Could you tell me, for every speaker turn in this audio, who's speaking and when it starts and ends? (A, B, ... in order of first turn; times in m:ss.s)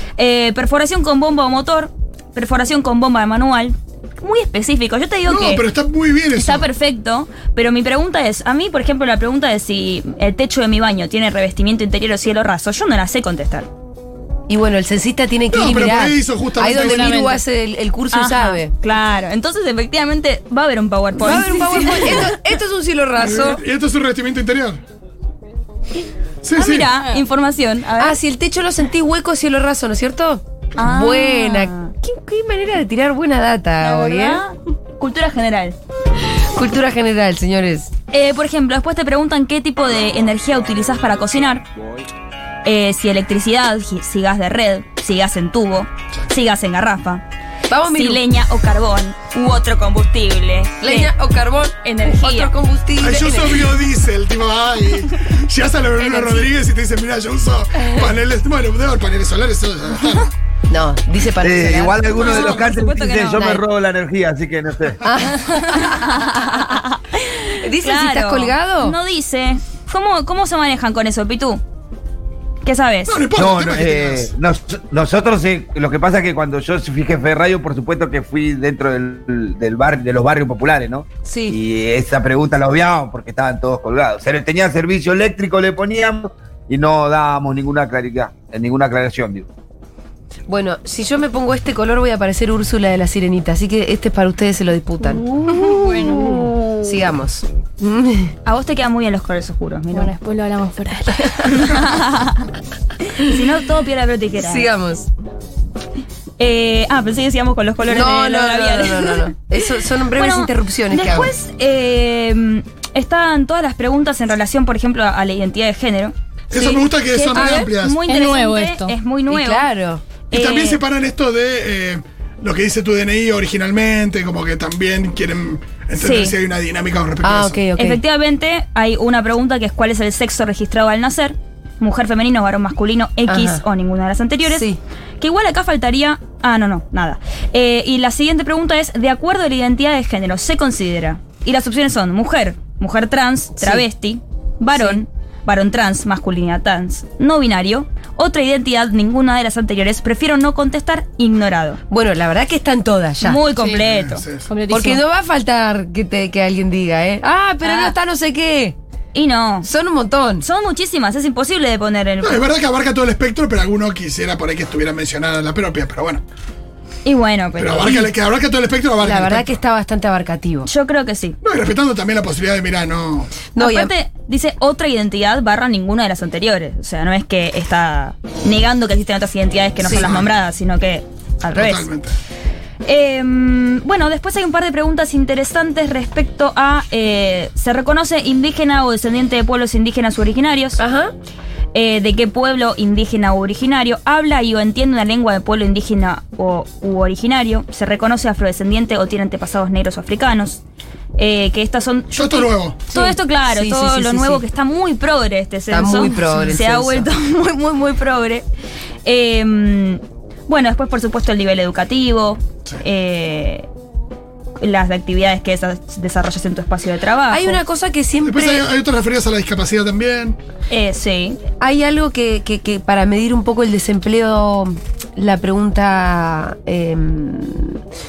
0:00.2-0:05.6 A
0:05.2-0:06.7 B
0:06.3-0:13.7 A
0:14.5-0:18.7 C
0:15.5-0:17.2 B
0:16.7-0:17.4 D
0:18.1-0:22.3 A
0:21.2-0:23.6 C
0:23.2-0:24.8 B
0:26.4-0:26.9 B
0:26.5-0:28.2 A
0:28.0-0:34.4 C
0:30.8-0:31.9 A
0:33.8-0:35.8 A
0:36.5-0:37.9 C
0:38.1-0:41.6 A
0:42.6-0:47.2 A
0:47.7-0:48.2 C
0:47.9-0:51.1 A
0:50.8-0:53.7 C
0:51.8-0:52.5 A
0:53.0-1:00.3 B
0:56.0-0:56.4 A
1:00.7-1:02.5 C
1:01.4-1:05.0 E
1:02.1-1:03.4 A
1:03.3-1:03.6 C
1:05.0-1:06.7 C
1:05.4-1:11.6 A
1:07.6-1:09.0 C
1:12.6-1:13.2 A
1:13.1-1:14.3 B
1:13.4-1:29.5 E
1:21.2-1:21.6 C
1:30.5-1:35.2 C
1:35.2-1:37.0 A
1:35.4-1:36.5 D
1:36.3-1:38.3 C
1:38.4-1:40.1 A
1:39.9-1:41.7 D
1:41.4-1:42.5 A
1:43.0-1:44.7 A
1:44.3-1:45.1 C
1:46.4-1:49.3 A
1:47.8-1:51.3 C
1:50.1-1:59.7 A
1:56.5-1:58.0 B
1:57.4-1:58.9 D
1:59.3-2:00.0 C
2:00.3-2:00.8 A
2:00.3-2:07.6 B
2:06.0-2:06.4 A
2:07.2-2:08.0 C
2:07.8-2:14.7 A
2:13.3-2:13.6 C
2:14.5-2:14.8 C
2:15.2-2:31.8 A
2:23.6-2:23.8 C
2:24.7-2:25.0 C
2:31.9-2:33.4 C
2:33.2-2:34.2 A
2:33.6-2:34.5 B
2:34.5-2:35.0 D
2:34.7-2:38.8 C
2:37.6-2:37.9 A
2:39.1-2:39.7 A
2:39.6-2:40.4 C
2:40.4-2:42.5 A
2:42.2-2:46.2 B
2:47.0-2:48.0 A
2:47.6-2:49.6 B
2:47.8-2:48.1 C
2:49.0-2:50.7 C
2:50.6-2:51.4 A
2:51.4-2:53.3 B
2:53.5-2:53.9 C
2:53.6-3:01.9 A
2:59.9-3:00.3 B
3:01.5-3:02.1 B
3:02.8-3:10.8 A
3:10.8-3:11.1 C
3:11.7-3:20.6 A
3:21.2-3:28.4 A
3:22.1-3:22.8 B
3:22.9-3:24.4 C
3:25.7-3:27.1 C
3:29.0-3:33.7 A
3:34.6-3:37.6 A
3:37.3-3:38.6 C
3:38.2-3:40.4 B
3:40.7-3:41.4 A
3:41.6-3:47.8 C